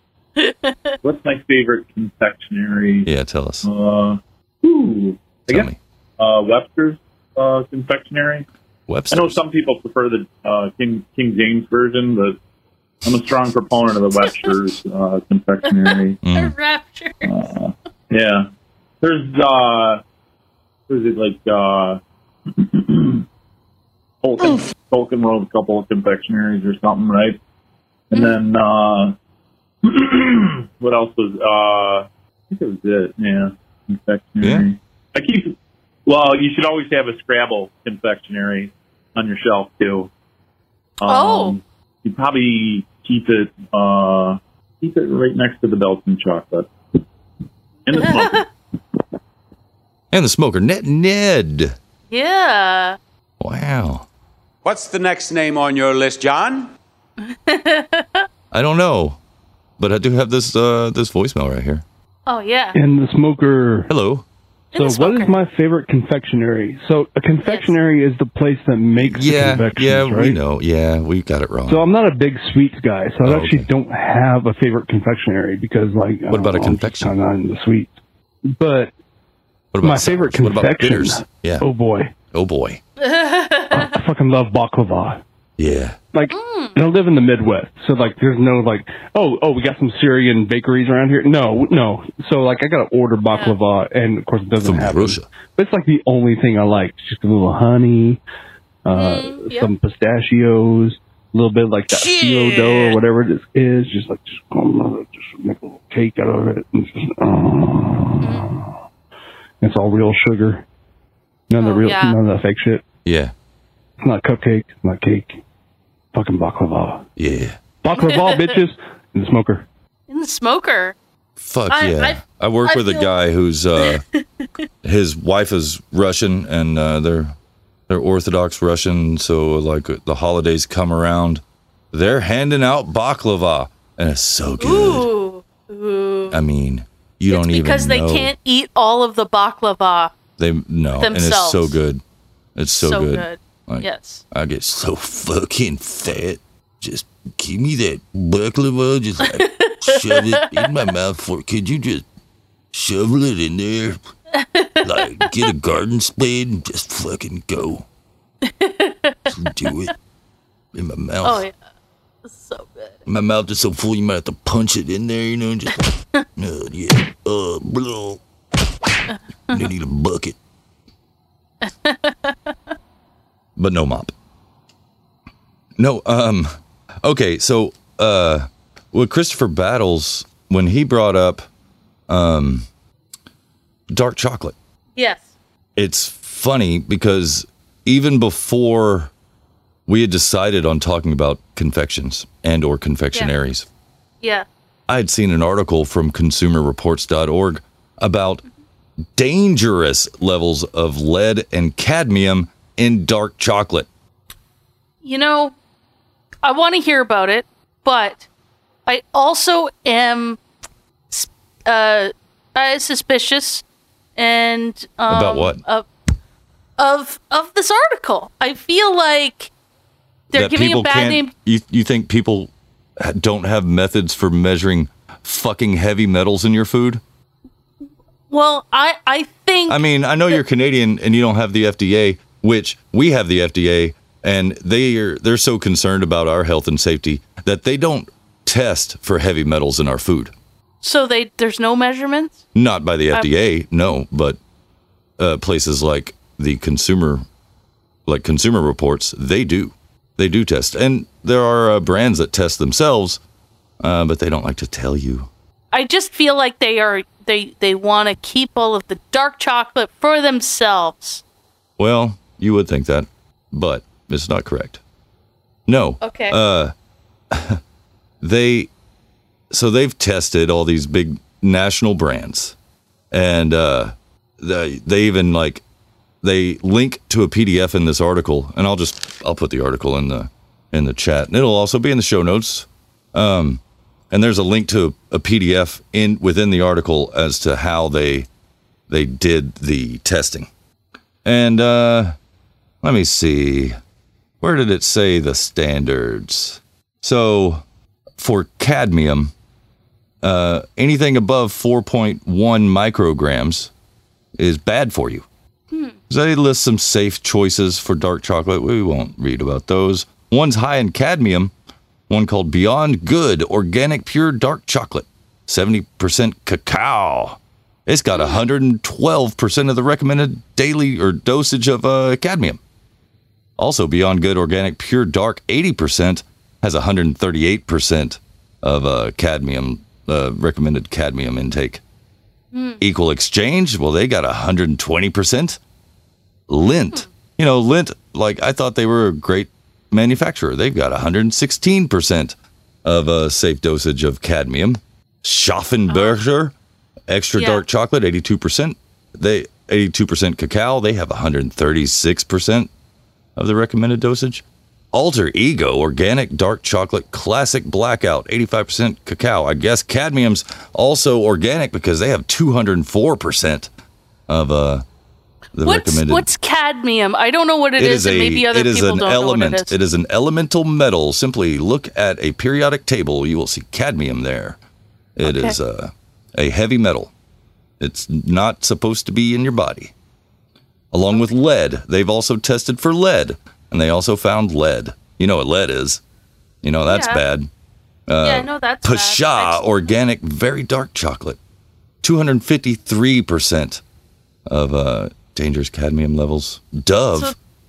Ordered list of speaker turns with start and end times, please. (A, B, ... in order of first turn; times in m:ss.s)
0:00.4-0:00.8 A
0:01.0-0:03.1 B
0:03.0-0:03.7 C
0:03.6-0:08.4 B
0:05.5-0:05.8 C
0:08.9-0:09.4 C
0:09.1-0:12.4 B
0:13.0-0:16.2 B
0:14.2-0:14.5 A
0:15.9-0:17.5 A
0:16.2-0:16.5 C
0:17.2-0:18.5 B
0:19.0-0:20.0 B
0:20.9-0:22.0 B
0:22.5-0:23.2 B
0:24.2-0:27.4 B
0:28.1-0:29.1 B
0:29.8-0:35.5 B
0:34.4-0:34.7 C
0:36.0-0:40.1 B
0:41.0-0:46.7 B
0:41.1-0:41.6 A
0:47.9-0:48.5 B
0:48.0-0:48.4 A
0:50.1-0:51.7 C
0:52.1-0:53.0 A
0:53.4-0:54.0 C
0:54.6-0:56.7 D
0:57.2-0:58.2 A
0:58.5-0:59.2 C
0:59.8-1:01.8 C
1:02.3-1:02.8 A
1:02.7-1:03.9 E
1:03.9-1:04.2 C
1:04.7-1:05.3 A
1:04.7-1:10.4 E
1:07.4-1:07.8 A
1:09.0-1:11.9 C
1:11.7-1:17.9 E
1:13.2-1:13.7 C
1:16.3-1:17.1 C
1:18.5-1:18.9 E
1:19.7-1:21.6 C
1:19.8-1:22.1 E
1:22.3-1:22.8 C
1:23.0-1:23.9 A
1:23.7-1:25.2 E
1:25.6-1:26.0 C
1:26.1-1:38.2 E
1:26.3-1:26.8 A
1:33.3-1:33.6 A
1:34.6-1:35.2 C
1:38.8-1:48.7 E
1:38.9-1:39.7 A
1:41.9-1:43.0 A
1:48.2-1:48.5 A
1:49.6-1:50.6 E
1:51.5-1:52.8 E
1:51.6-1:52.2 A
1:53.0-1:53.3 C
1:54.0-1:55.4 E
1:56.1-1:57.0 E
1:57.2-1:57.6 C
1:57.8-1:59.6 E
1:57.9-1:58.6 A
2:00.1-2:01.0 A
2:01.4-2:04.0 C
2:01.7-2:03.2 A
2:04.8-2:07.4 C
2:07.9-2:15.1 C
2:14.6-2:16.4 A
2:16.3-2:18.3 C
2:17.3-2:20.1 A
2:20.4-2:22.0 C
2:21.0-2:21.8 A
2:22.6-2:32.0 C
2:22.8-2:24.2 A
2:29.2-2:30.5 A
2:32.7-2:34.0 C
2:34.3-2:35.0 A
2:34.8-2:37.9 C
2:38.4-2:39.3 A
2:39.3-2:39.9 C
2:40.7-2:41.4 C
2:41.2-2:41.5 A
2:42.2-2:43.0 A
2:43.0-2:48.2 C
2:49.1-2:49.6 A
2:49.5-2:50.4 C
2:51.6-2:52.5 A
2:53.6-2:54.1 C
2:55.8-3:01.4 C
3:02.1-3:02.7 C
3:03.9-3:04.5 C
3:05.0-3:05.3 A
3:05.8-3:09.1 C
3:09.9-3:13.7 C
3:14.9-3:18.4 C
3:19.2-3:23.9 C
3:25.0-3:25.5 A
3:26.4-3:28.3 A
3:28.9-3:30.4 A
3:31.1-3:33.6 A
3:34.2-3:35.9 A
3:35.1-3:35.6 C
3:36.8-3:39.5 A
3:40.3-3:41.3 A
3:40.3-3:47.0 C
3:48.3-3:50.4 A
3:49.7-4:00.3 C
4:00.8-4:02.4 A
4:02.5-4:04.4 C
4:05.2-4:07.2 C
4:08.0-4:13.2 C
4:13.8-4:15.3 C
4:15.7-4:21.2 A
4:21.8-4:24.8 C
4:25.7-4:26.7 C
4:26.0-4:26.4 A
4:27.3-4:27.6 C
4:28.2-4:28.7 C
4:29.5-4:32.5 C
4:33.1-4:35.6 C
4:36.2-4:48.3 C
4:48.9-4:50.5 C
4:51.2-4:52.1 C
4:52.8-4:53.8 C
4:54.4-4:57.6 C
4:58.2-4:59.3 C
5:00.2-5:03.7 C
5:04.4-5:05.2 C
5:05.7-5:06.0 A
5:06.1-5:11.5 C
5:12.1-5:22.6 C
5:18.1-5:18.4 A
5:23.6-5:31.8 C
5:32.5-5:32.8 A
5:32.8-5:35.6 C
5:36.5-5:46.5 C
5:45.9-5:46.2 A
5:47.1-5:52.7 C
5:47.4-5:47.6 A
5:53.4-6:03.7 C
6:04.3-6:04.8 C
6:05.5-6:06.3 C
6:05.6-6:09.7 A
6:07.8-6:14.6 C
6:15.2-6:17.1 C
6:15.2-6:15.6 A
6:17.8-6:19.9 C
6:20.9-6:26.0 C
6:26.6-6:27.5 C
6:26.9-6:27.2 A
6:28.1-6:31.4 C
6:28.2-6:29.9 A
6:32.0-6:33.8 C
6:34.5-6:37.3 C